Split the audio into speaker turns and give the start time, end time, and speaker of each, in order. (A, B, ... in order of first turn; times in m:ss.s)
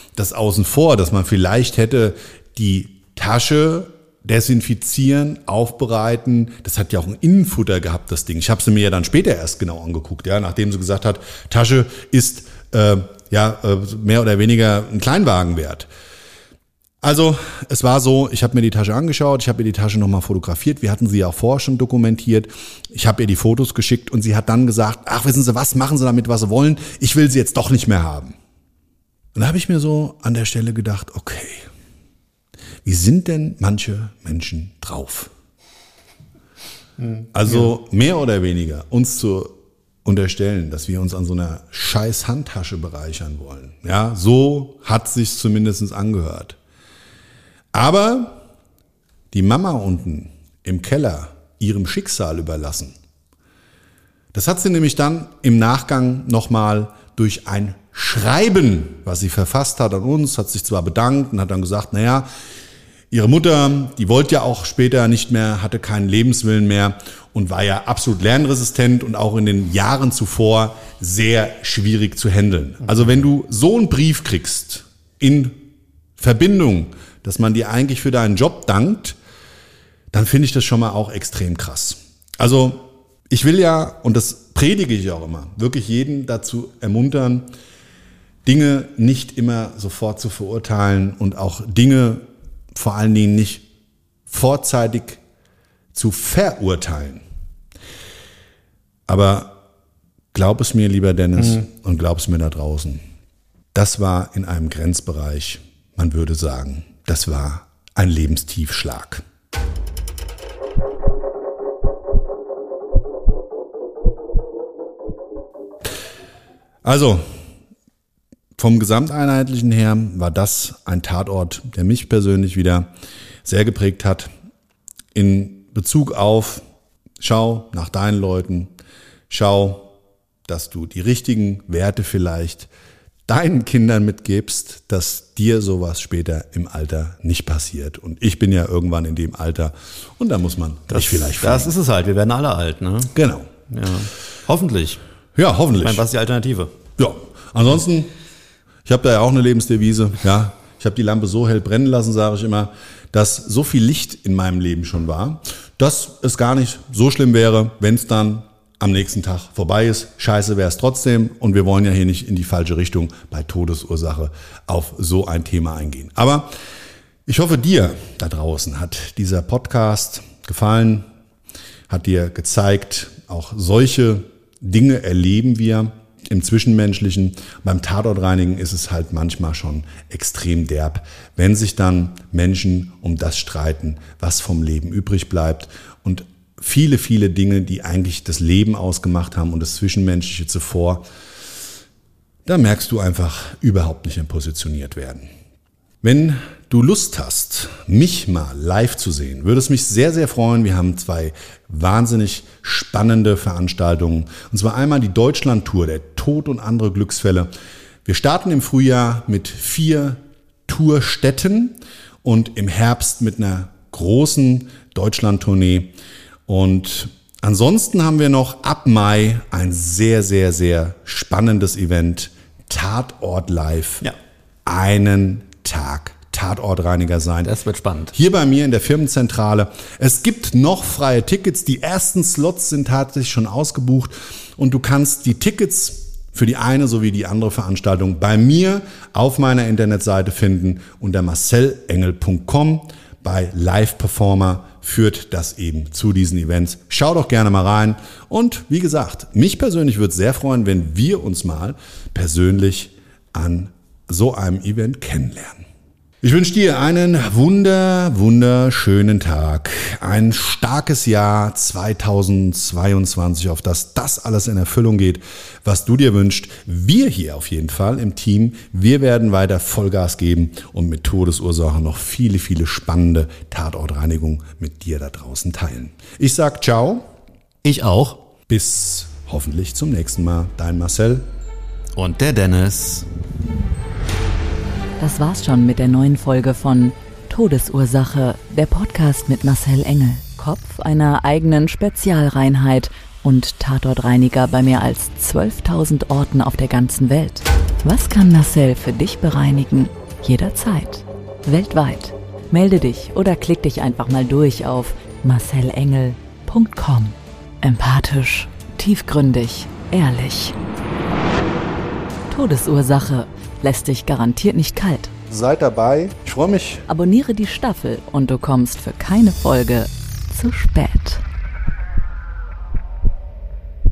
0:00.2-0:15.9 A
0:17.0-0:28.4 A
0:29.4-0:31.7 A
0:32.8-0:35.3 A
0:37.3-0:46.6 A
0:47.7-0:48.4 A
0:49.3-0:52.9 A
0:54.3-1:02.3 A
1:03.1-1:15.6 A
1:16.2-1:19.2 A
1:20.1-1:27.5 A
1:28.4-1:33.6 A
1:34.3-1:35.2 A
1:35.9-1:37.2 A
1:39.1-1:39.6 A
1:40.3-1:43.0 A
1:43.7-1:49.2 A
1:56.8-1:57.3 A
1:58.6-2:02.9 A
2:03.4-2:04.3 A
2:05.1-2:06.6 A
2:07.2-2:08.7 A
2:09.3-2:09.9 A
2:10.5-2:12.7 A
2:13.3-2:21.7 A
2:20.9-2:23.1 B
2:23.1-2:23.5 A
2:23.7-2:25.0 B
2:25.4-2:26.0 A
2:25.8-2:26.7 B
2:27.0-2:28.1 A
2:28.8-2:46.5 A
2:47.3-2:51.1 A
2:51.9-3:11.0 A
3:12.4-3:15.3 A
3:16.0-3:27.5 A
3:28.0-3:35.9 A
3:36.5-3:44.1 A
3:44.7-3:47.5 A
3:47.4-3:48.1 B
3:48.1-4:15.6 A
4:16.2-4:37.1 A
4:37.6-4:38.2 B
4:38.5-4:41.3 A
4:41.9-4:43.1 B
4:45.0-5:10.6 C
5:12.3-5:15.1 C
5:15.3-5:16.9 A
5:16.9-5:21.2 C